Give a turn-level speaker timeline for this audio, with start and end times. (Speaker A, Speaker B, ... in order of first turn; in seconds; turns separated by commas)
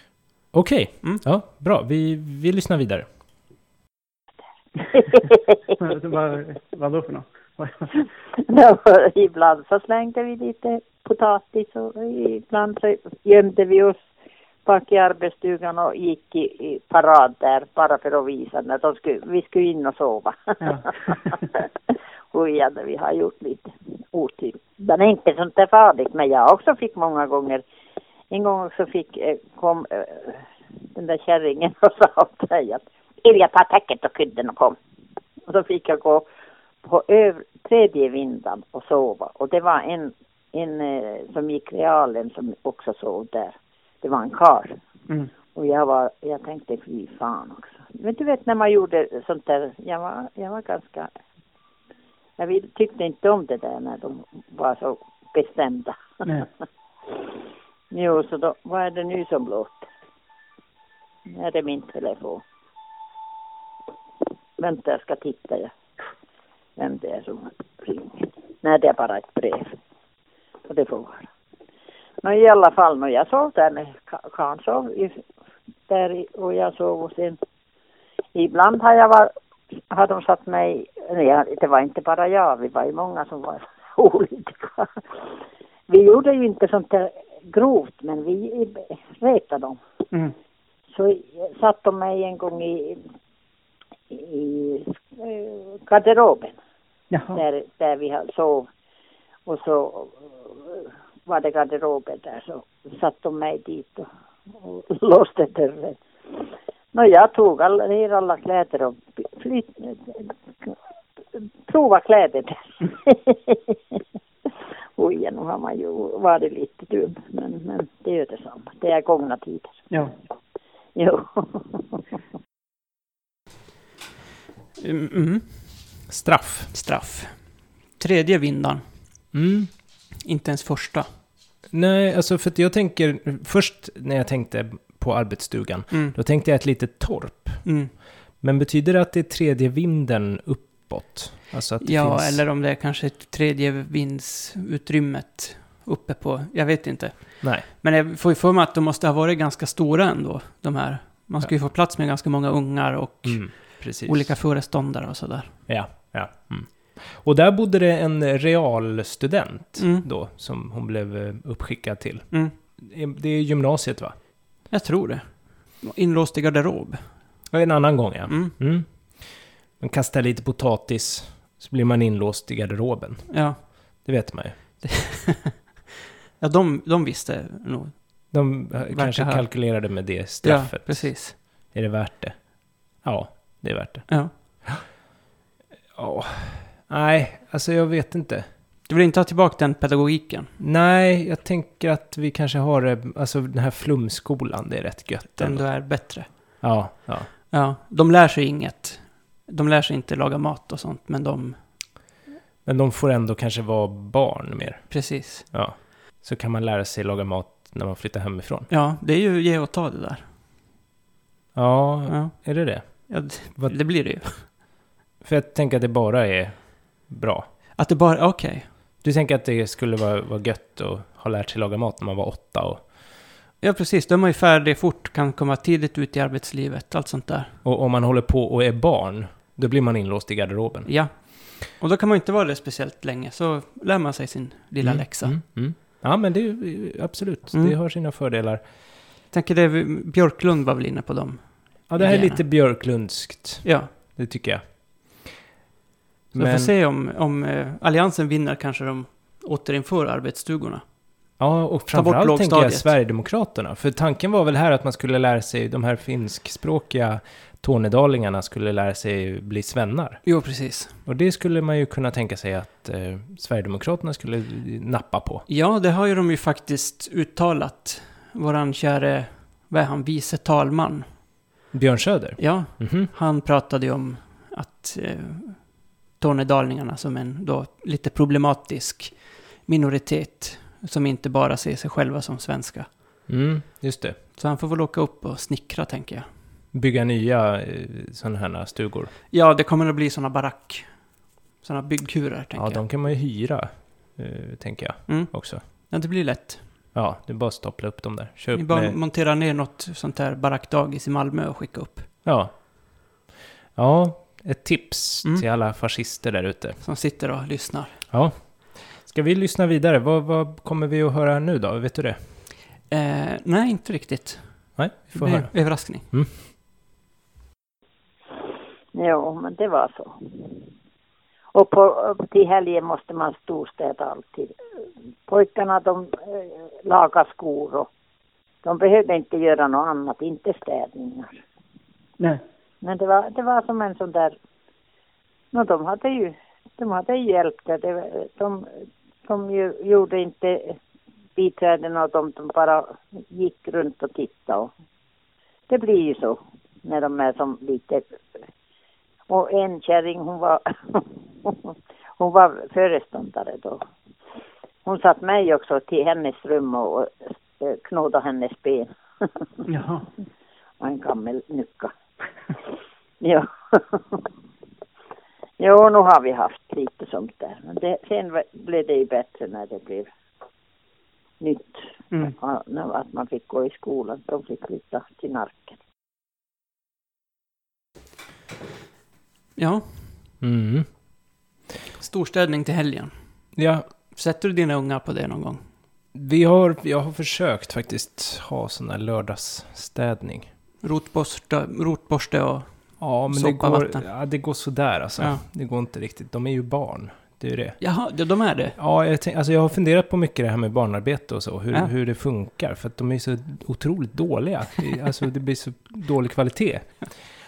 Speaker A: 0.5-3.0, Speaker B: 5.1-5.4, Speaker C: 5.8-8.0, Speaker B: 8.4-14.0, Speaker B: 14.7-21.7, Speaker C: 20.6-21.4, Speaker B: 22.3-27.6, Speaker B: 28.3-34.8, Speaker B: 35.5-36.3, Speaker B: 36.8-44.8, Speaker B: 45.5-51.1, Speaker B: 52.4-56.3, Speaker B: 57.9-59.9, Speaker B: 61.3-62.4, Speaker B: 64.6-65.7, Speaker B: 66.8-69.8, Speaker B: 70.7-71.3, Speaker B: 72.2-75.2, Speaker B: 75.9-77.4, Speaker B: 78.3-79.3, Speaker B: 79.9-85.3, Speaker B: 85.9-89.8, Speaker B: 90.9-93.0, Speaker B: 94.1-96.6, Speaker C: 97.1-97.4, Speaker B: 97.3-98.7, Speaker B: 99.5-110.8, Speaker B: 111.3-114.0, Speaker B: 115.0-119.9, Speaker B: 121.0-122.0, Speaker D: 124.8-126.0, Speaker A: 126.1-126.7, Speaker D: 126.7-128.8, Speaker A: 129.3-129.7, Speaker D: 130.2-131.1, Speaker A: 131.7-137.7, Speaker D: 135.9-136.2, Speaker D: 137.6-137.9, Speaker A: 138.4-142.4, Speaker D: 141.8-155.6, Speaker A: 147.4-147.7, Speaker A: 153.2-154.4, Speaker A: 155.7-164.1, Speaker D: 159.8-160.1, Speaker D: 164.7-167.3, Speaker A: 167.5-174.8, Speaker D: 168.3-168.6, Speaker D: 173.3-173.7, Speaker D: 174.8-175.6, Speaker D: 176.4-181.4, Speaker A: 178.3-184.8, Speaker D: 184.1-184.3, Speaker A: 185.9-188.5, Speaker D: 188.9-190.5, Speaker A: 190.6-197.3, Speaker D: 195.3-196.7, Speaker D: 197.5-201.6, Speaker A: 202.6-208.7, Speaker D: 204.9-205.5, Speaker D: 208.7-210.3, Speaker A: 211.5-213.8, Speaker D: 212.1-214.5, Speaker A: 215.2-217.5, Speaker D: 217.7-218.7, Speaker A: 219.0-222.9, Speaker D: 223.6-227.5, Speaker A: 227.6-230.9, Speaker D: 230.8-235.4, Speaker A: 234.8-238.6, Speaker D: 239.3-242.4, Speaker A: 241.9-245.4, Speaker D: 243.6-243.9, Speaker D: 246.3-250.8, Speaker A: 246.3-246.7, Speaker A: 251.4-260.2, Speaker D: 251.9-252.9, Speaker D: 260.2-260.9, Speaker A: 261.0-265.4, Speaker D: 265.5-271.1, Speaker A: 271.7-273.1, Speaker D: 272.4-282.9, Speaker A: 283.3-284.2, Speaker D: 284.4-286.3, Speaker A: 286.7-289.1, Speaker D: 289.3-291.1, Speaker D: 291.6-292.8, Speaker A: 292.5-295.6, Speaker D: 295.1-296.7, Speaker A: 296.9-299.0, Speaker D: 298.5-302.1, Speaker A: 302.2-303.2, Speaker A: 303.8-306.8, Speaker D: 306.8-308.0, Speaker A: 308.1-312.2, Speaker D: 312.9-316.1, Speaker A: 314.8-316.4, Speaker B: 318.9-320.5, Speaker B: 321.5-324.6, Speaker B: 325.3-327.9, Speaker B: 328.6-331.4, Speaker B: 332.8-334.3, Speaker B: 335.5-338.7, Speaker B: 339.2-340.8, Speaker B: 341.4-344.7, Speaker B: 345.7-348.1, Speaker B: 349.3-353.8, Speaker B: 354.9-359.4, Speaker C: 359.7-360.1, Speaker B: 360.8-361.9, Speaker B: 363.2-364.2, Speaker B: 365.6-370.1, Speaker B: 371.4-375.8, Speaker D: 379.6-380.1, Speaker A: 380.4-380.9, Speaker D: 382.0-383.1, Speaker A: 383.6-383.9, Speaker D: 384.1-385.6, Speaker A: 386.1-390.5, Speaker D: 390.8-394.1, Speaker A: 393.0-397.8, Speaker D: 397.8-398.8, Speaker A: 398.8-407.3